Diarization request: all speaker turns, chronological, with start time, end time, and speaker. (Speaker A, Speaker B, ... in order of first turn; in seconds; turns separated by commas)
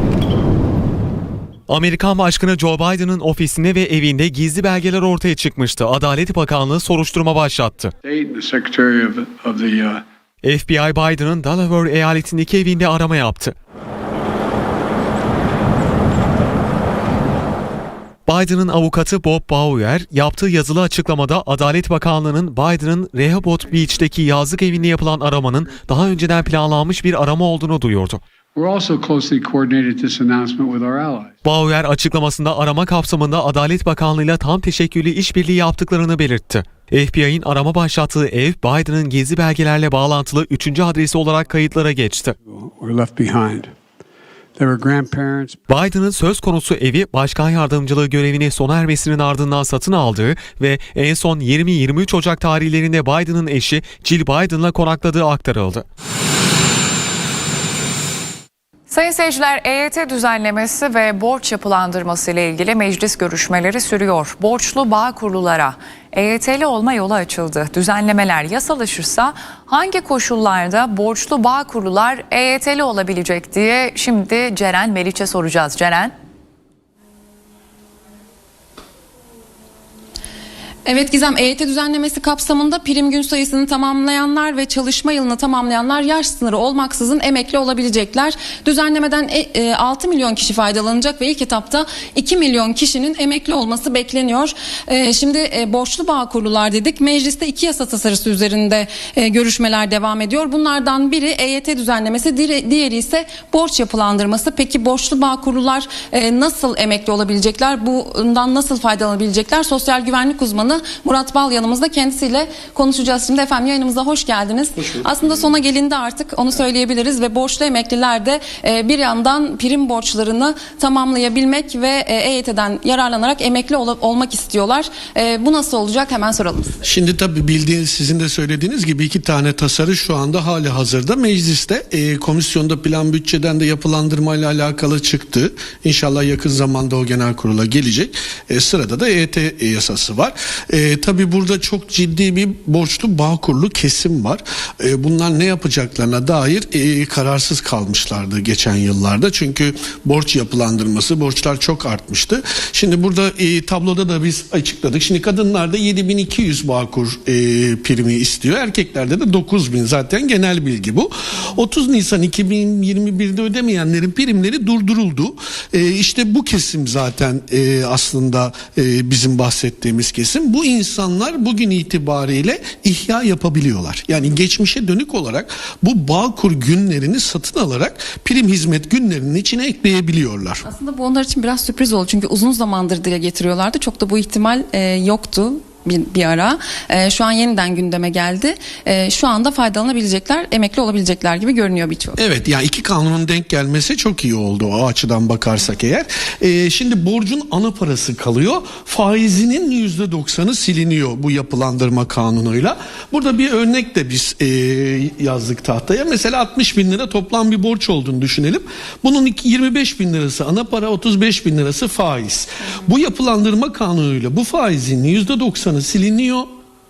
Speaker A: 1.7-7.9, Speaker B: 8.0-10.0, Speaker A: 10.4-13.5, Speaker A: 18.3-28.2, Speaker B: 28.5-31.3, Speaker A: 31.4-42.3, Speaker B: 42.4-43.7, Speaker B: 44.5-45.6, Speaker A: 45.7-55.9, Speaker C: 58.9-76.1, Speaker D: 80.8-126.8, Speaker E: 114.8-115.4, Speaker E: 126.8-180.6, Speaker D: 180.6-192.2, Speaker E: 192.2-216.5